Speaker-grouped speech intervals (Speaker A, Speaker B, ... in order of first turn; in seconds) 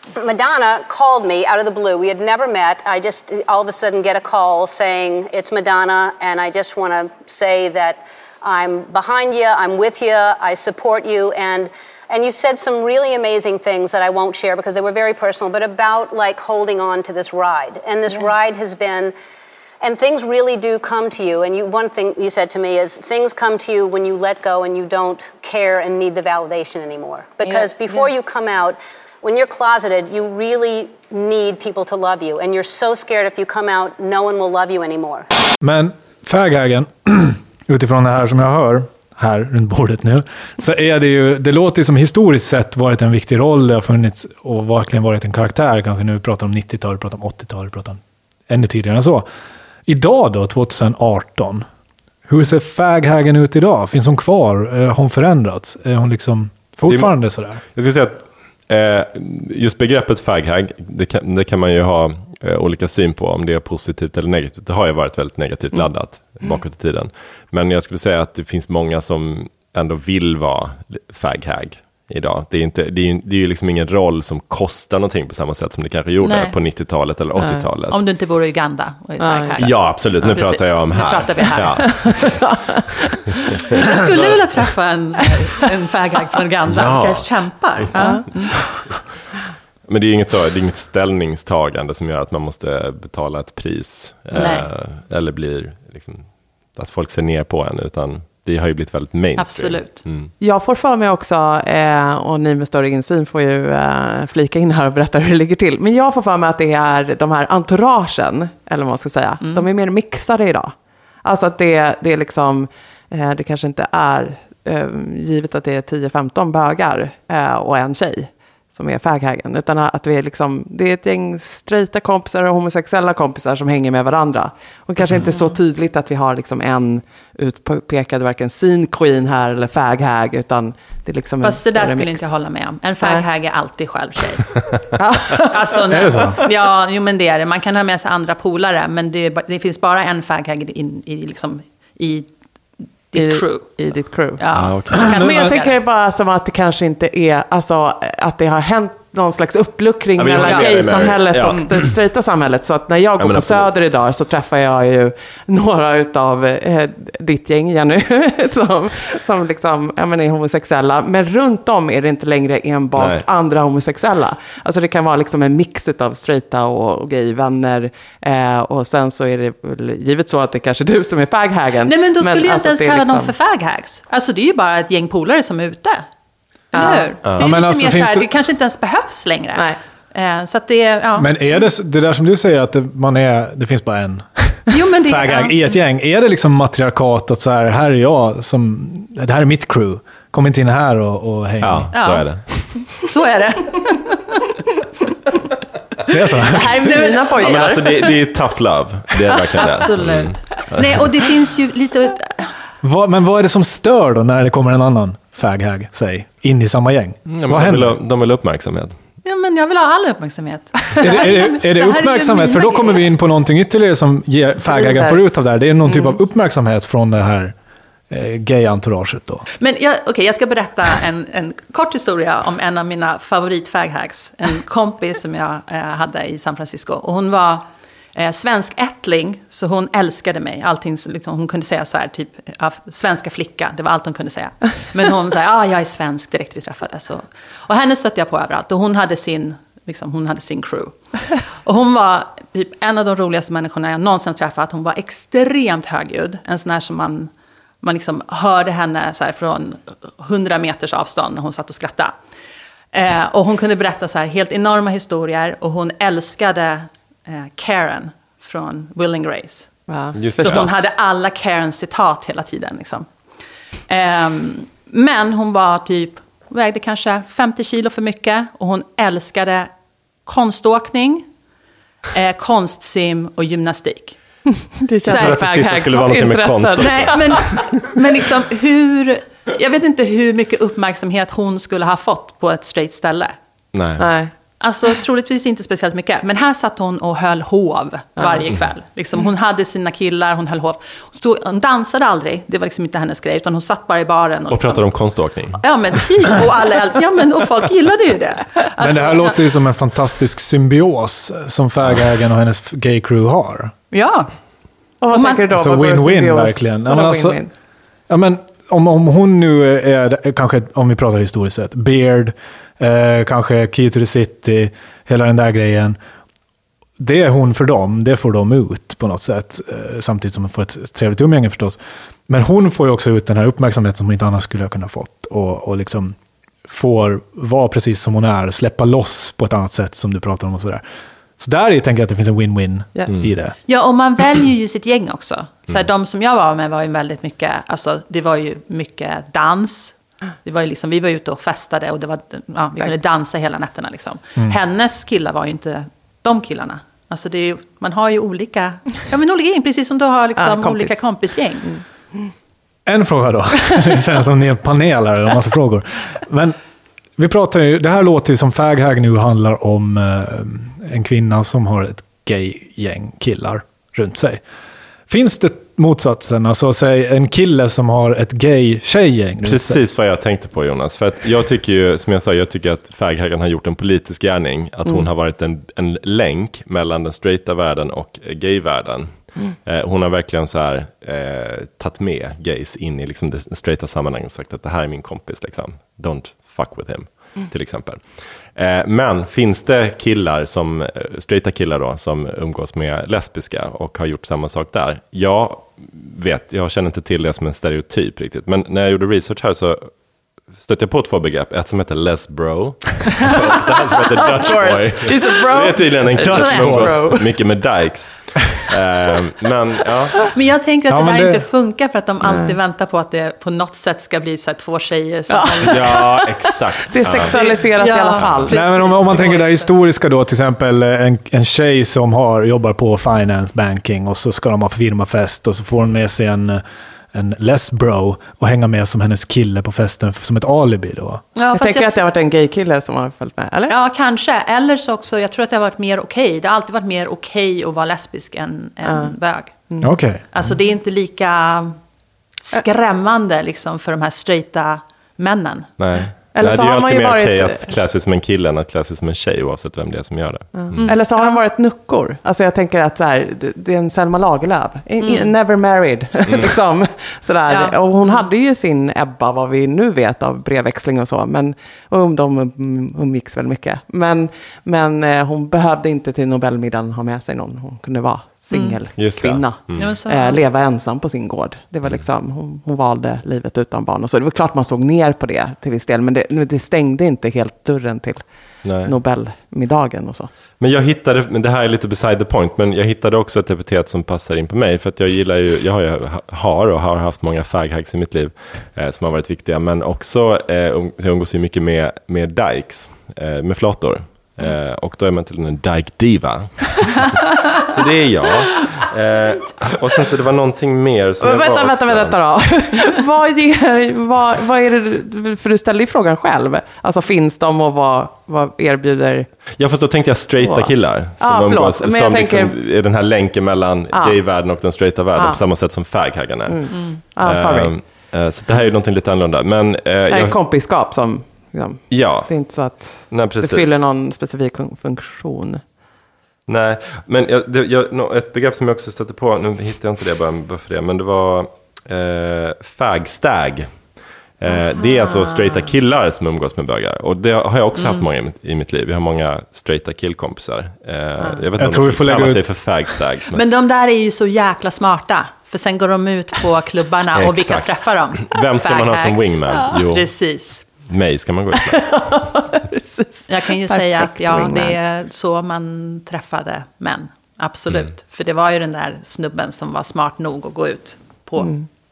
Speaker A: 0.1-19.1, 19.8-35.2
Speaker B: 27.4-28.1, 76.2-76.5, 77.9-82.4, 83.7-88.7, 94.3-94.7, 99.4-100.0, 131.4-134.5, 135.3-142.3, 143.1-143.7, 144.4-145.7, 150.4-151.7, 171.9-176.0, 176.7-181.3, 184.7-185.8, 191.9-192.3, 192.9-194.4, 196.6-197.7, 199.6-202.5, 209.2-213.1, 219.6-240.9, 241.6-247.3, 247.8-252.1, 252.9-259.7, 260.4-263.1, 263.9-269.7, 270.2-271.2, 272.1-274.2, 275.1-275.4, 276.8-283.4, 284.6-294.9, 295.5-299.4, 303.9-304.3, 305.1-305.4, 333.7-351.8, 410.3-416.1, 417.3-419.7, 431.4-432.0, 433.7-441.8, 442.4-445.7, 450.7-451.4, 455.0-455.3, 457.5-458.2, 468.5-468.8, 469.8-470.4, 537.8-538.0, 543.3-550.6, 553.3-561.6
Speaker C: 35.6-49.2, 49.9-51.6, 52.3-57.6, 135.9-136.4, 145.1-145.5, 177.3-178.3, 181.2-191.9, 196.1-196.9, 202.8-207.9, 211.0-217.5, 218.1-219.4, 298.8-303.7, 305.5-307.4, 308.1-316.0, 317.0-321.8, 322.3-326.1, 326.7-330.8, 331.4-333.5, 352.9-356.6, 357.2-364.4, 365.1-369.8, 406.2-407.1, 410.9-411.4, 418.5-426.6, 427.1-431.2, 439.8-440.2, 541.6-542.4
Speaker D: 56.9-78.0, 79.6-82.5, 84.0-84.4, 86.7-89.0, 89.9-100.3, 144.5-145.2, 150.2-151.8, 153.2-153.7, 162.9-163.2, 191.6-192.8, 197.4-201.1, 207.3-208.9, 260.1-260.7, 275.1-277.4, 283.7-284.1, 294.5-295.6, 301.8-302.2, 369.4-399.9, 400.5-410.2, 415.6-418.5, 445.8-450.9, 469.0-469.9, 478.6-478.9, 480.6-502.2, 509.6-520.4, 521.9-522.3, 523.1-523.7, 526.5-533.7, 534.4-543.4, 547.1-550.1, 550.9-551.9
Speaker E: 77.4-77.6, 79.2-79.7, 81.8-82.3, 87.9-88.2, 100.4-132.3, 135.0-135.5, 143.1-173.3, 176.7-177.1, 196.5-198.1, 214.6-215.2, 215.8-216.2, 259.9-260.8, 274.8-277.4, 284.0-284.3, 305.0-307.5, 350.4-351.0, 404.3-407.3, 412.2-412.5, 415.3-418.6, 431.5-433.7, 438.9-439.1, 439.7-439.9, 446.3-447.8, 450.5-478.2, 478.8-480.3, 501.2-509.3, 510.4-512.5, 513.9-514.2, 515.1-515.4, 516.5-517.7, 520.1-525.6, 535.1-535.5, 551.7-554.8, 561.4-561.6